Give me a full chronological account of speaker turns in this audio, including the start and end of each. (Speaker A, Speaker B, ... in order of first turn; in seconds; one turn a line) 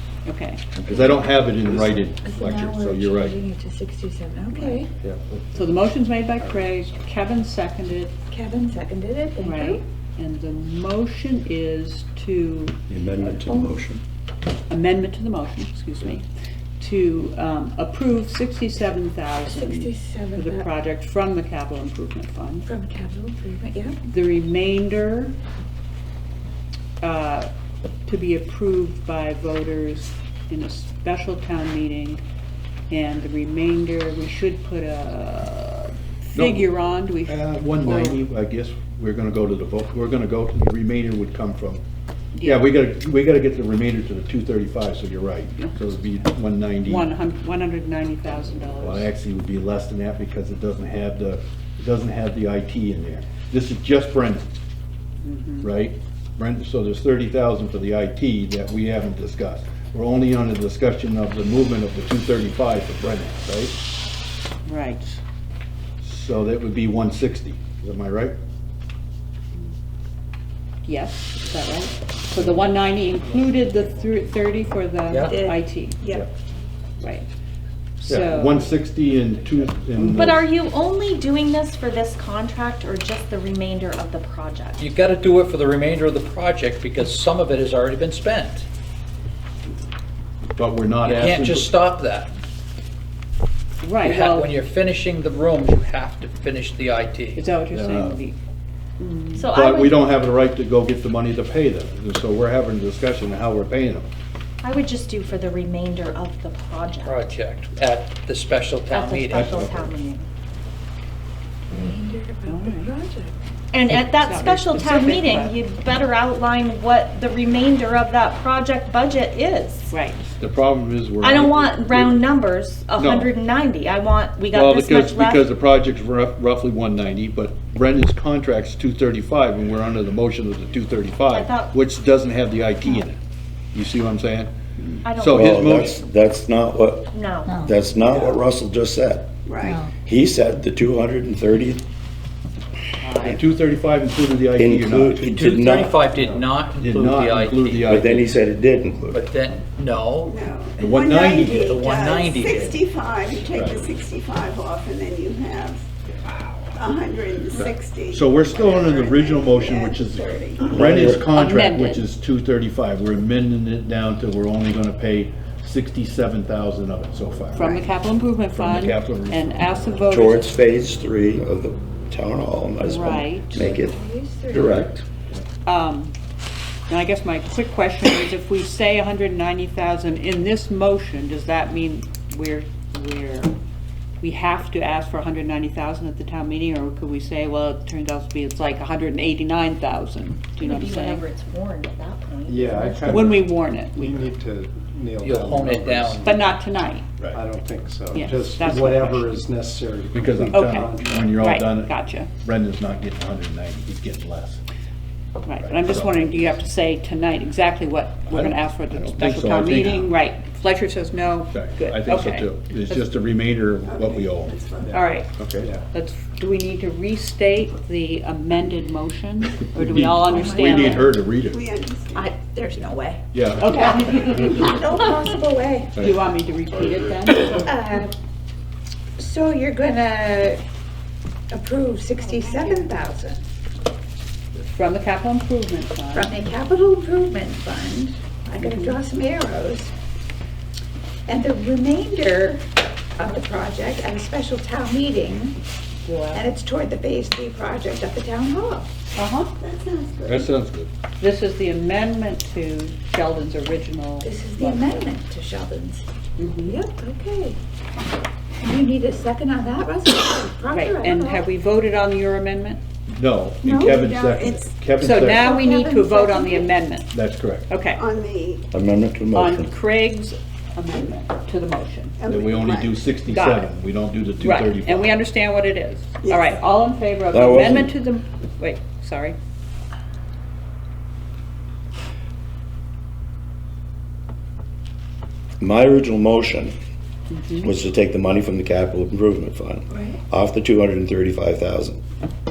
Speaker A: 0.2-0.7
Speaker B: 0.8-2.0
Speaker C: 0.9-3.4
Speaker D: 2.2-4.9
Speaker C: 5.0-5.6
Speaker A: 5.5-8.2
Speaker D: 8.3-9.8
Speaker A: 9.4-12.8
Speaker B: 12.9-14.0
Speaker D: 13.5-13.7
Speaker A: 14.7-16.3
Speaker A: 16.8-22.7
Speaker D: 19.5-20.7
Speaker D: 22.7-24.1
Speaker A: 24.1-25.4
Speaker A: 27.0-27.5
Speaker A: 28.1-32.2
Speaker A: 32.9-38.2
Speaker C: 36.4-36.7
Speaker C: 37.3-41.8
Speaker A: 42.4-42.7
Speaker C: 42.4-47.1
Speaker A: 46.8-49.1
Speaker C: 48.8-54.5
Speaker A: 55.2-55.7
Speaker C: 55.6-63.8
Speaker A: 64.7-65.2
Speaker C: 66.0-68.4
Speaker A: 70.8-76.0
Speaker C: 72.4-72.6
Speaker E: 75.1-75.5
Speaker D: 75.3-75.6
Speaker A: 77.0-77.3
Speaker A: 78.0-78.8
Speaker C: 78.1-80.5
Speaker A: 80.0-80.3
Speaker F: 80.1-84.8
Speaker E: 84.8-88.7
Speaker C: 90.6-91.7
Speaker E: 91.0-92.3
Speaker A: 93.8-94.5
Speaker E: 94.0-97.5
Speaker A: 97.4-98.4
Speaker C: 97.7-98.2
Speaker A: 99.0-99.5
Speaker F: 99.3-100.0
Speaker C: 99.5-104.1
Speaker F: 104.6-107.2
Speaker E: 107.0-109.6
Speaker F: 108.9-110.3
Speaker C: 109.3-109.9
Speaker D: 111.7-113.4
Speaker A: 112.5-112.9
Speaker F: 113.7-119.9
Speaker A: 114.0-115.5
Speaker A: 119.9-120.2
Speaker C: 120.4-122.2
Speaker F: 121.2-125.5
Speaker C: 123.0-123.3
Speaker C: 124.5-133.2
Speaker F: 131.3-131.8
Speaker C: 133.7-134.5
Speaker F: 135.1-135.9
Speaker C: 135.2-136.0
Speaker B: 135.2-139.3
Speaker F: 137.1-137.6
Speaker B: 139.9-141.8
Speaker A: 143.0-143.3
Speaker C: 143.2-145.2
Speaker B: 144.6-146.0
Speaker E: 145.2-148.0
Speaker C: 146.8-148.3
Speaker B: 147.9-149.2
Speaker E: 149.1-150.4
Speaker G: 150.3-151.2
Speaker H: 150.3-155.8
Speaker C: 150.8-151.8
Speaker E: 151.5-152.9
Speaker G: 151.9-153.8
Speaker C: 153.4-153.8
Speaker H: 156.7-160.6
Speaker C: 157.6-167.9
Speaker G: 158.2-160.8
Speaker B: 160.7-161.2
Speaker A: 161.3-162.0
Speaker A: 167.5-170.5
Speaker C: 168.5-169.6
Speaker B: 170.1-174.0
Speaker A: 172.8-173.6
Speaker D: 173.5-174.7
Speaker B: 174.5-175.0
Speaker C: 174.5-175.4
Speaker A: 175.7-176.1
Speaker A: 176.9-183.6
Speaker A: 184.2-191.2
Speaker F: 190.6-193.3
Speaker G: 192.5-196.6
Speaker A: 192.9-194.3
Speaker E: 195.2-196.3
Speaker A: 196.2-197.2
Speaker G: 197.3-201.5
Speaker A: 198.1-199.4
Speaker C: 200.1-204.6
Speaker A: 200.5-202.3
Speaker A: 205.4-213.1
Speaker C: 205.6-206.4
Speaker C: 208.3-210.1
Speaker C: 211.5-214.6
Speaker G: 213.9-215.9
Speaker A: 214.9-221.0
Speaker C: 215.4-215.7
Speaker C: 219.8-221.6
Speaker D: 220.2-221.1
Speaker G: 220.9-222.3
Speaker H: 221.5-222.2
Speaker D: 222.1-226.1
Speaker C: 223.3-223.7
Speaker A: 223.6-224.6
Speaker C: 224.2-224.6
Speaker A: 226.0-227.6
Speaker D: 227.4-228.1
Speaker D: 229.2-230.6
Speaker D: 231.5-233.4
Speaker A: 232.6-232.8
Speaker A: 234.7-236.3
Speaker D: 236.1-239.9
Speaker A: 238.6-239.0
Speaker D: 241.3-242.6
Speaker D: 243.2-245.6
Speaker A: 246.1-246.5
Speaker D: 246.3-248.9
Speaker A: 249.2-249.5
Speaker G: 249.6-250.4
Speaker H: 249.7-250.3
Speaker C: 250.3-250.9
Speaker A: 251.2-255.1
Speaker D: 254.2-257.6
Speaker A: 256.4-256.8
Speaker D: 258.6-261.4
Speaker A: 260.7-262.8
Speaker C: 263.1-265.5
Speaker G: 263.6-264.0
Speaker H: 263.7-264.6
Speaker A: 265.0-268.0
Speaker D: 265.1-266.7
Speaker C: 267.1-267.7
Speaker H: 268.0-268.6
Speaker B: 268.7-269.7
Speaker A: 269.3-272.5
Speaker G: 272.2-273.0
Speaker C: 272.3-275.1
Speaker A: 273.2-273.7
Speaker A: 274.4-279.4
Speaker G: 276.2-276.5
Speaker B: 277.3-277.9
Speaker B: 285.6-286.8
Speaker A: 287.3-287.7
Speaker B: 287.6-292.0
Speaker D: 289.9-290.2